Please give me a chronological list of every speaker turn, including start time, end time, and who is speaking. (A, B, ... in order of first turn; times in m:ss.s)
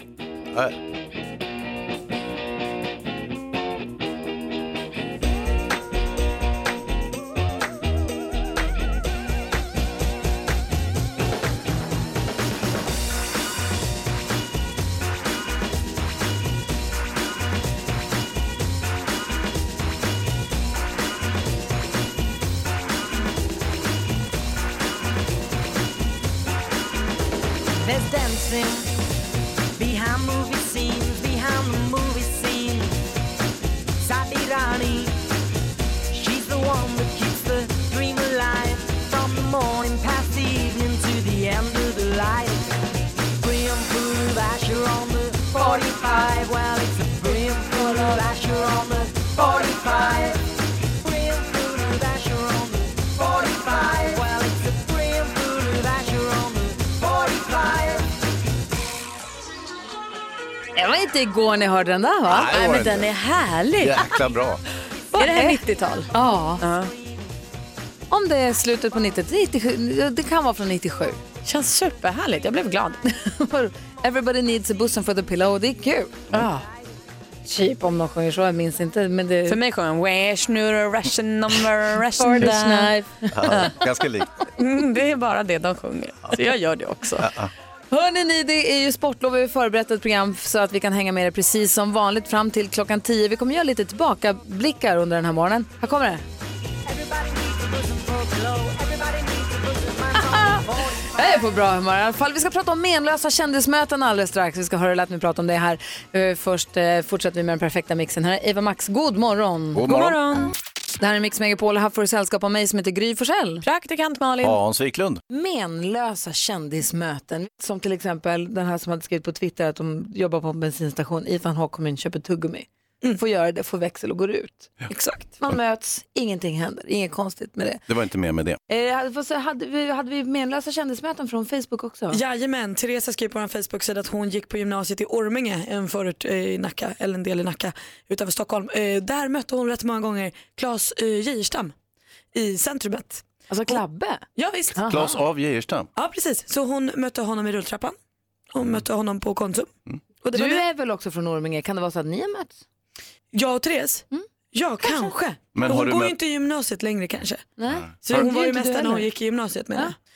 0:27.8-0:28.9 A
0:29.8-0:33.1 A
0:34.0-0:35.2 A
0:36.1-0:42.8 A
0:43.4-0:50.4 A
0:51.0-0:58.1 A
1:00.8-1:02.6 B
1:02.3-1:03.1 C
1:02.5-1:04.1 D
1:03.8-1:04.6 C
1:05.2-1:05.6 B
1:05.2-1:06.9 D
1:06.1-1:06.6 B
1:08.1-1:11.2 B
1:11.4-1:13.0 D
1:13.2-1:16.3 B
1:16.3-1:16.6 D
1:17.4-1:19.6 B
1:19.4-1:23.7 D
1:22.2-1:23.0 B
1:23.3-1:24.3 C
1:24.6-1:27.3 D
1:27.2-1:27.5 C
1:27.9-1:36.2 B
1:36.9-1:41.3 A
1:40.2-1:40.6 B
1:41.1-1:49.9 B
1:49.8-1:50.2 C
1:49.9-1:50.4 D
1:51.0-1:53.6 B
1:53.6-1:54.6 D
1:54.4-1:55.2 C
1:55.3-2:04.7 B
2:04.9-2:05.2 E
2:05.4-2:07.8 B
2:07.9-2:08.6 C
2:08.7-2:12.2 B
2:12.1-2:21.7 E
2:22.3-2:23.8 E
2:23.5-2:24.2 B
2:24.4-2:24.8 E
2:24.8-2:25.1 B
2:24.9-2:25.9 C
2:26.0-2:28.0 E
2:28.5-2:29.7 E
2:30.2-2:30.6 E
2:30.3-2:32.6 B
2:33.3-2:37.4 E
2:34.8-2:35.1 B
2:35.5-2:36.2 C
2:37.6-2:39.1 B
2:38.0-2:39.9 E